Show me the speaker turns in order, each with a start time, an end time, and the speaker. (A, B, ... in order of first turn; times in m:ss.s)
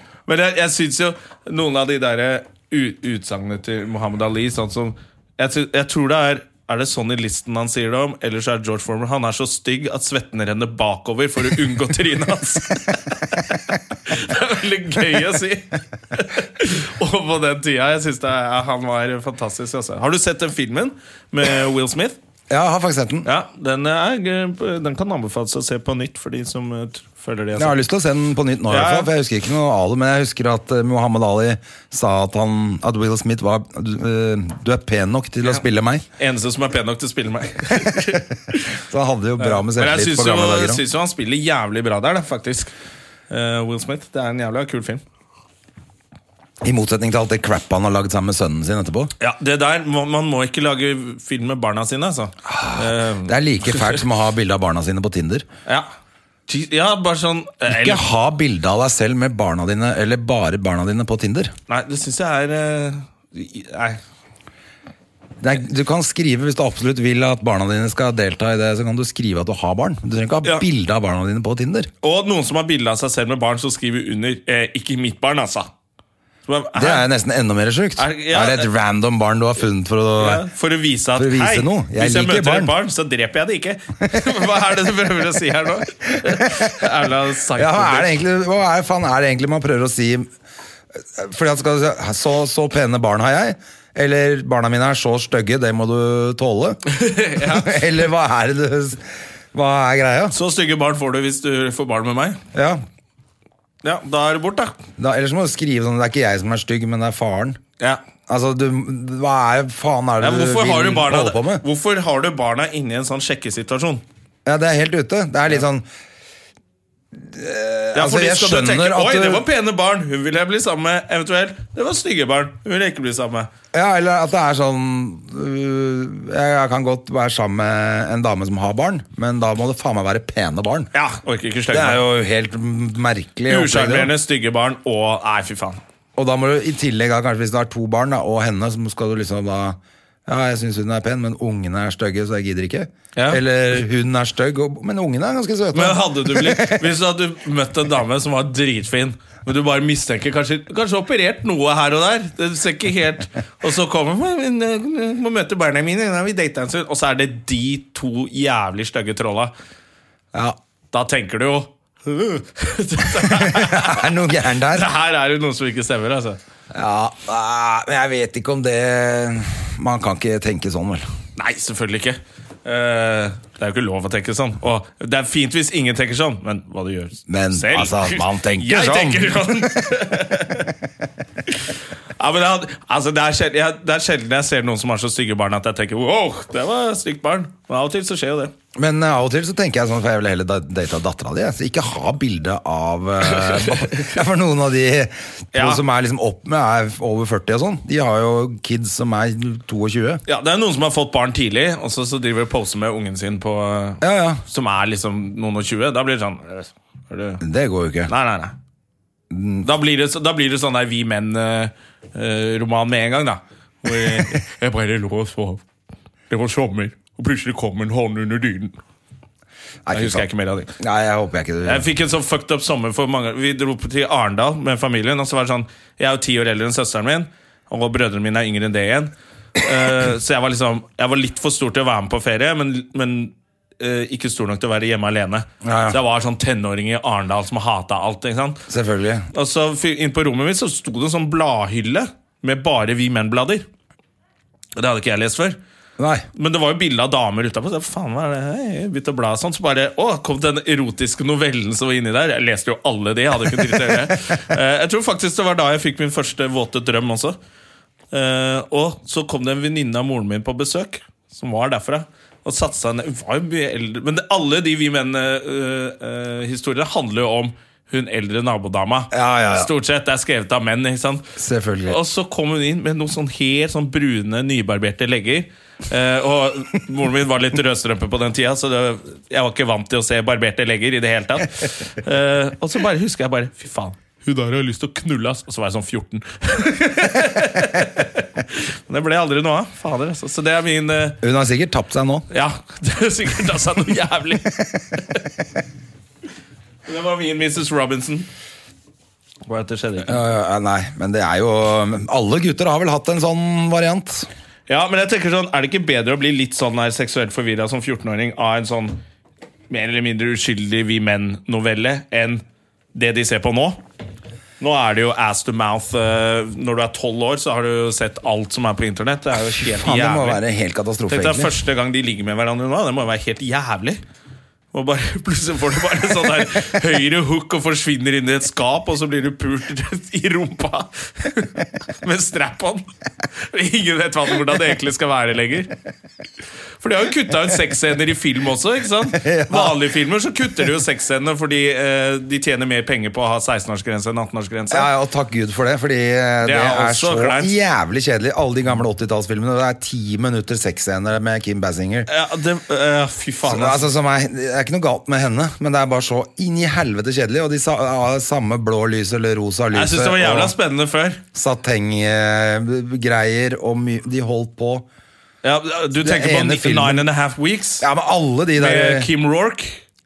0:00.3-0:22.2 A
0:22.5-0:23.3 B
0:23.2-0:27.8 A
0:27.6-0:36.0 B
0:28.7-0:29.1 A
0:36.2-0:38.7 A
0:38.7-0:40.8 B
0:39.4-0:42.7 A
0:43.3-0:45.0 A
0:46.6-0:49.1 B
0:49.2-0:53.9 A
0:52.5-0:55.4 B
0:56.5-0:58.0 A
0:57.7-1:01.5 B
1:01.7-1:04.0 A
1:05.4-1:11.9 B
1:12.0-1:15.7 A
1:16.5-1:17.0 A
1:16.8-1:20.4 B
1:18.0-1:18.7 A
1:20.2-1:28.2 A
1:21.2-1:22.7 B
1:26.3-1:26.7 B
1:27.6-1:30.3 B
1:31.0-1:40.3 B
1:36.9-1:37.8 A
1:40.3-1:42.4 A
1:42.5-1:42.8 B
1:43.8-1:44.8 A
1:45.0-1:47.6 B
1:48.3-1:51.6 B
1:50.2-1:54.0 A
1:54.4-1:55.8 B
1:57.2-1:59.4 B
1:57.9-2:03.5 A
2:03.7-2:10.9 B
2:10.9-2:12.0 A
2:11.7-2:14.1 B
2:13.5-2:15.8 A
2:16.2-2:26.9 B
2:23.1-2:23.4 A
2:25.7-2:39.5 A
2:40.9-2:44.1 A
2:43.2-2:44.9 B
2:44.7-2:46.4 A
2:46.7-2:51.0 B
2:51.4-3:00.7 A
2:57.3-2:59.8 B
3:01.5-3:08.5 A
3:08.7-3:20.2 B
3:13.3-3:14.1 A
3:15.5-3:15.8 A
3:20.2-3:27.4 A
3:24.0-3:24.4 B
3:27.4-3:28.1 B
3:28.1-3:28.5 A
3:29.3-3:29.7 B
3:29.6-3:35.6 A
3:36.3-3:38.8 A
3:39.8-3:40.2 B
3:39.9-3:40.7 A
3:40.8-3:41.8 B
3:41.6-3:58.6 A
3:55.6-3:56.0 B
3:58.7-3:59.3 B
3:59.3-4:03.6 A
4:04.8-4:05.6 A
4:06.0-4:06.2 B
4:06.3-4:17.4 A
4:18.1-4:31.3 A
4:29.1-4:29.7 B
4:31.4-4:32.0 B
4:31.8-4:51.2 A
4:51.2-4:52.2 B
4:52.3-4:54.5 A
4:56.8-4:58.3 A
4:59.4-5:00.2 A
5:00.1-5:04.3 B
5:04.7-5:09.0 A
5:09.7-5:12.4 A
5:12.9-5:13.8 A
5:14.6-5:20.4 A
5:19.7-5:21.5 B
5:21.1-5:24.0 A
5:24.7-5:32.8 A
5:33.5-5:35.7 A
5:36.8-5:44.9 A
5:39.1-5:39.8 B
5:44.7-5:52.1 B
5:46.4-5:47.5 A
5:52.1-5:53.9 A
5:53.4-6:00.5 B
5:59.7-6:01.2 A
6:01.3-6:04.8 B
6:05.4-6:07.8 A
6:06.0-6:07.1 B
6:07.8-6:09.1 B
6:08.6-6:09.8 A